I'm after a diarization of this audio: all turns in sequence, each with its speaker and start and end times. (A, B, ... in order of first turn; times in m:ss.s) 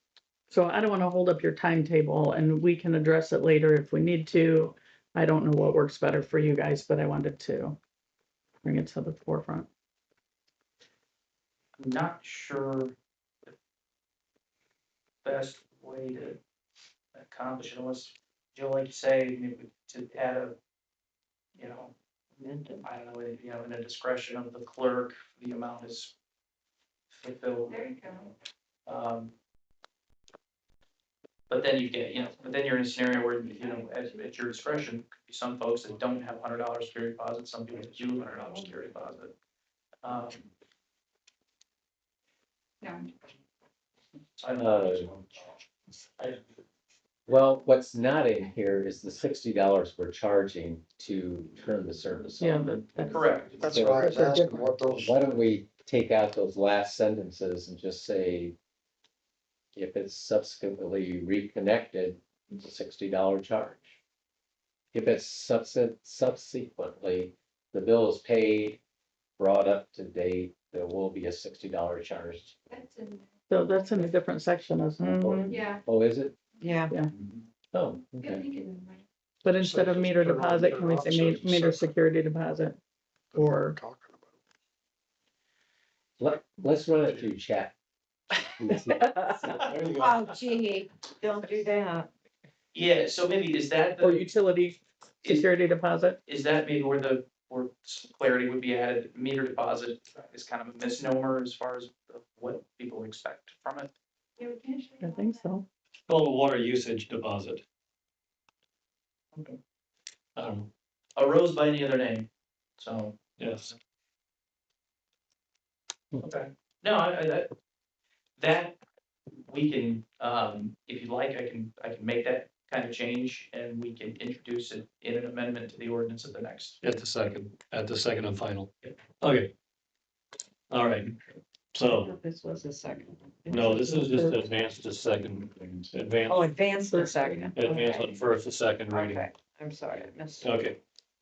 0:00.5-0:07.8 A
0:08.6-0:09.7 A
0:11.8-0:12.9 B
0:15.2-0:16.4 B
0:17.2-0:20.6 B
0:21.6-0:21.9 B
0:22.4-0:22.8 C
0:22.8-0:26.1 B
0:27.1-0:28.2 B
0:27.7-0:28.3 D
0:28.9-0:29.3 B
0:31.5-0:39.3 B
0:40.0-0:40.5 B
0:42.8-0:43.1 D
0:44.4-0:45.2 B
0:44.6-0:45.1 E
0:47.3-0:54.3 E
0:52.4-0:54.7 A
0:53.1-0:53.6 B
0:53.6-0:55.4 F
0:54.9-0:58.6 E
0:59.8-1:04.0 E
1:04.9-1:08.8 E
1:09.4-1:12.6 E
1:12.7-1:13.3 D
1:13.5-1:15.5 A
1:15.0-1:15.5 C
1:15.2-1:16.4 E
1:15.5-1:15.8 D
1:16.6-1:16.9 C
1:17.7-1:18.4 E
1:18.2-1:19.0 D
1:19.4-1:22.8 A
1:19.5-1:22.0 F
1:23.3-1:24.4 F
1:23.3-1:23.8 A
1:26.2-1:27.7 E
1:28.5-1:29.1 E
1:28.7-1:29.6 A
1:29.7-1:30.2 G
1:29.9-1:32.1 C
1:32.7-1:34.2 B
1:34.0-1:36.2 A
1:36.3-1:43.9 B
1:44.4-1:45.5 D
1:45.0-1:45.7 A
1:46.1-1:47.6 G
1:50.4-1:50.7 G
1:51.2-1:53.8 B
1:53.4-1:53.7 G
1:56.2-1:57.5 B
1:58.4-1:58.8 B
1:59.4-2:06.8 B
2:06.8-2:09.5 G
2:10.7-2:11.1 G
2:11.7-2:12.1 G
2:11.9-2:14.3 C
2:13.5-2:16.5 G
2:16.3-2:18.2 C
2:16.9-2:17.7 A
2:17.6-2:19.3 G
2:18.9-2:20.6 C
2:20.4-2:20.8 G